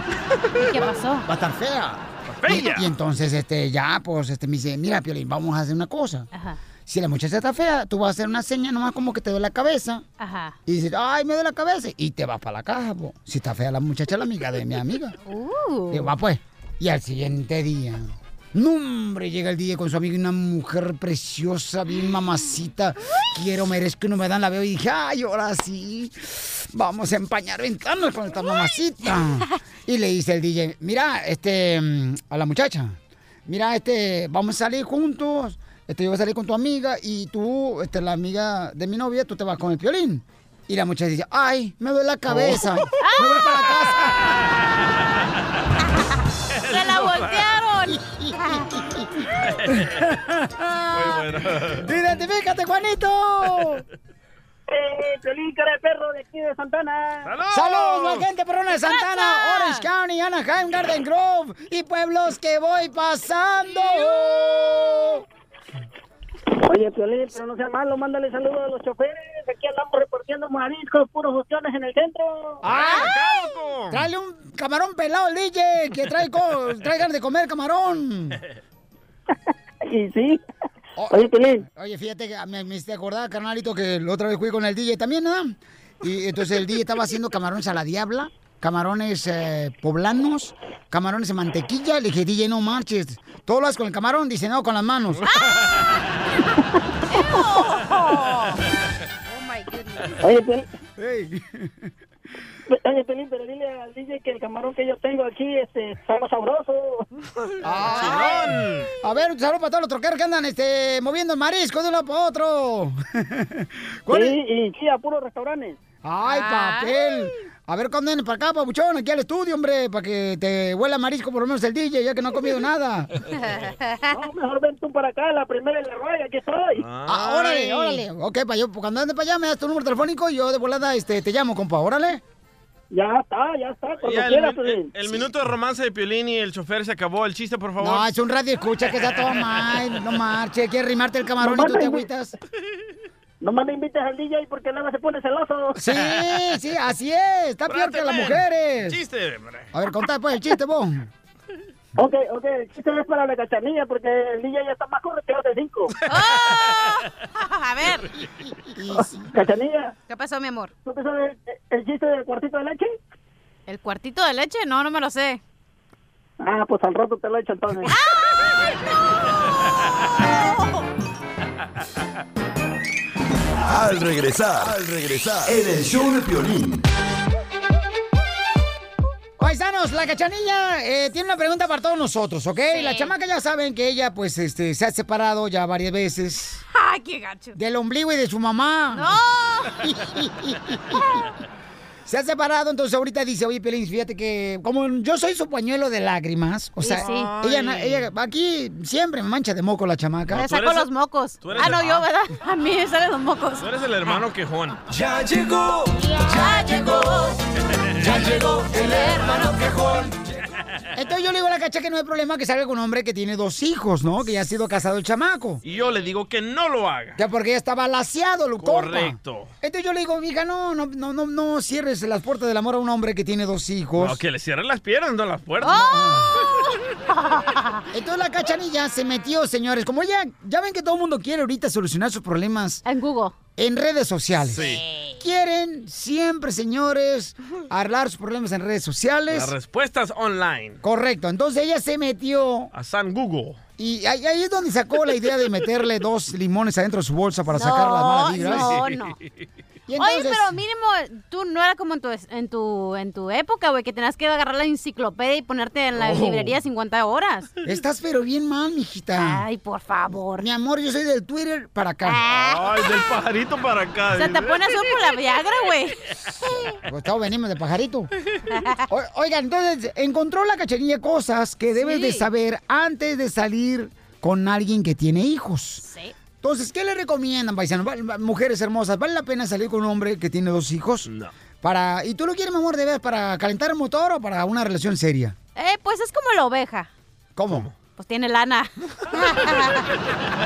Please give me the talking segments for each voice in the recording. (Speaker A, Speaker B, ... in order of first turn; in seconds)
Speaker A: 0.6-1.2, 6.3-6.6, 10.2-10.6, 15.2-16.1, 43.0-43.6, 46.7-48.7, 50.6-51.2, 58.7-59.9, 95.2-95.7, 97.1-98.6, 99.3-100.2, 116.2-117.3, 123.3-124.2, 156.1-158.1, 160.1-160.7, 163.7-165.4, 167.9-170.9, 182.7-183.1, 186.7-187.6, 188.9-189.8, 196.8-197.3, 200.3-204.2, 206.2-207.4, 208.0-209.6, 225.6-227.8, 232.8-233.4, 234.6-235.2, 247.5-249.2, 250.0-257.5, 259.2-260.5, 262.1-262.7, 264.1-266.1, 268.5-268.9, 271.7-272.3, 275.8-276.1, 285.6-286.9, 287.9-289.9
Speaker B: 1.2-6.3, 6.9-10.0, 10.7-15.2, 15.9-44.1, 48.0-48.4, 49.7-50.4, 51.8-53.9, 57.5-65.2, 72.6-73.2, 73.9-78.4, 81.0-95.2, 101.0-101.8, 107.6-114.4, 116.0-123.1, 127.1-132.2, 137.8-142.3, 145.8-149.0, 149.7-151.1, 158.8-159.3, 179.4-186.6, 187.6-189.2, 189.8-191.0, 192.1-200.4, 206.0-207.1, 208.0-210.1, 210.9-215.6, 217.2-224.2, 225.7-226.3, 227.9-232.8, 233.6-239.6, 240.8-242.7, 243.8-248.8, 249.9-250.5, 257.6-259.4, 260.4-262.2, 266.8-268.1, 268.9-275.9, 276.4-281.1, 281.6-285.4, 287.4-287.7
Speaker C: 2.3-2.9, 46.6-47.5, 49.5-49.9, 50.9-51.9, 57.2-58.3, 72.7-74.1, 107.8-108.9, 126.8-128.0, 134.0-138.1, 146.0-146.3, 147.7-149.7, 197.0-198.1, 200.3-200.9, 201.4-202.1, 203.6-204.8, 215.6-217.2, 218.6-219.5, 224.0-225.8, 234.5-234.8, 239.3-240.8, 242.7-243.6, 248.4-249.1, 255.9-256.6, 262.3-264.8, 281.1-281.3, 287.5-287.7
Speaker D: 54.7-57.3, 66.7-72.6, 79.9-80.4, 81.1-81.6, 100.2-100.7, 102.7-107.0, 114.1-115.8, 124.1-126.8, 132.9-134.9, 141.4-142.0, 143.4-145.7, 152.0-155.9, 159.3-159.9, 160.9-162.9, 166.4-167.9
Speaker E: 173.6-176.8, 204.9-205.7